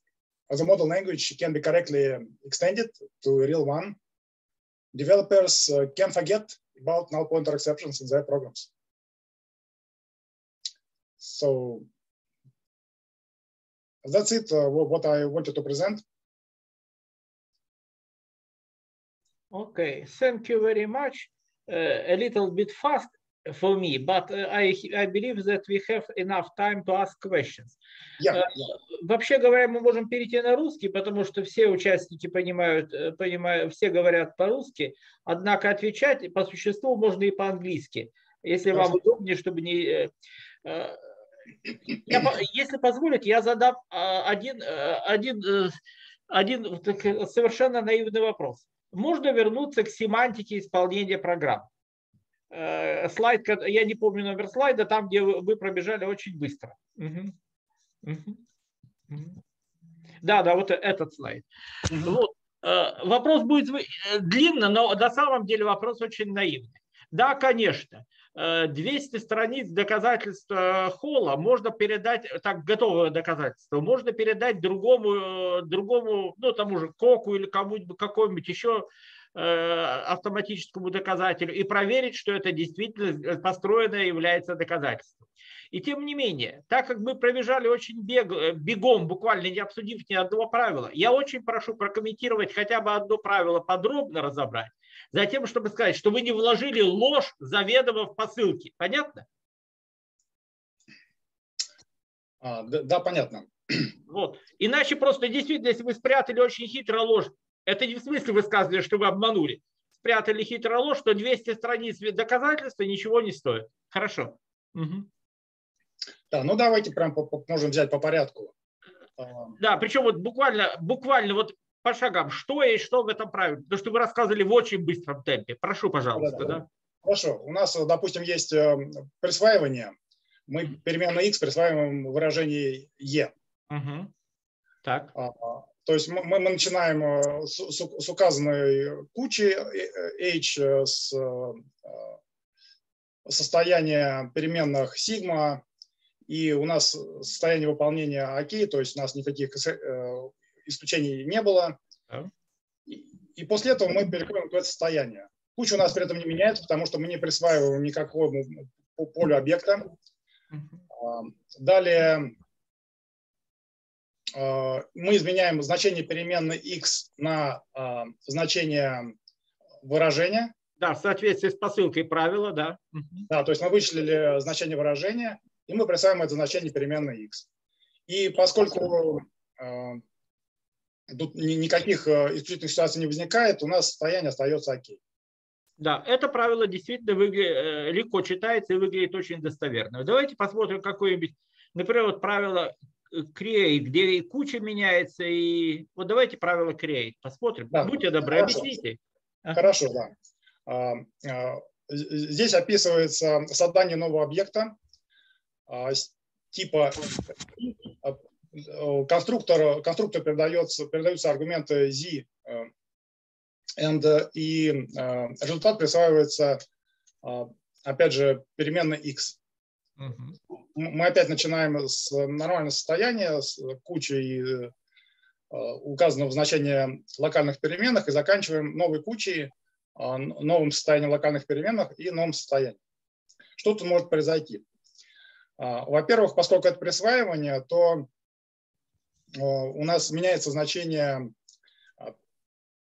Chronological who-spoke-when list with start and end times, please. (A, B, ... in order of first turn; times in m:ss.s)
0:00.5-0:04.0 A
0:04.9-0:08.7 A
0:11.2-0:11.9 A
0:14.0-0:16.0 A
0:19.5-0:27.8 B
0:28.2-0:28.6 A
0:28.3-0:40.1 B
0:40.6-0:41.0 B
0:42.0-0:45.8 B
0:46.3-0:51.7 B
0:52.5-0:57.3 B
0:58.0-0:58.4 B
0:59.1-0:59.4 B
1:00.2-1:39.3 B
1:42.4-1:43.9 A
1:44.1-1:55.1 B
1:56.3-1:58.5 A
1:59.2-1:59.6 A
1:59.6-2:06.7 B
2:06.2-2:10.0 A
2:10.5-2:13.3 A
2:13.7-2:14.1 B
2:14.8-2:15.1 B
2:15.2-2:22.1 A
2:23.3-2:25.6 A
2:26.3-2:31.8 A
2:32.9-2:39.9 A
2:40.5-2:40.8 B
2:40.9-2:42.3 A
2:44.3-2:49.1 A
2:49.8-2:50.5 A
2:50.8-2:53.3 B
2:53.3-2:57.4 A
2:58.1-3:00.0 A
3:01.1-3:05.0 A
3:05.8-3:19.6 B
3:17.7-3:18.7 A
3:19.6-3:20.1 A
3:20.7-3:24.8 A
3:25.7-3:32.7 A
3:33.8-3:36.6 A
3:37.2-3:39.4 A
3:40.0-3:40.4 B
3:40.8-3:44.7 A
3:45.5-3:52.8 A
3:53.6-3:54.6 A
3:55.6-3:58.1 A
3:59.3-4:01.3 A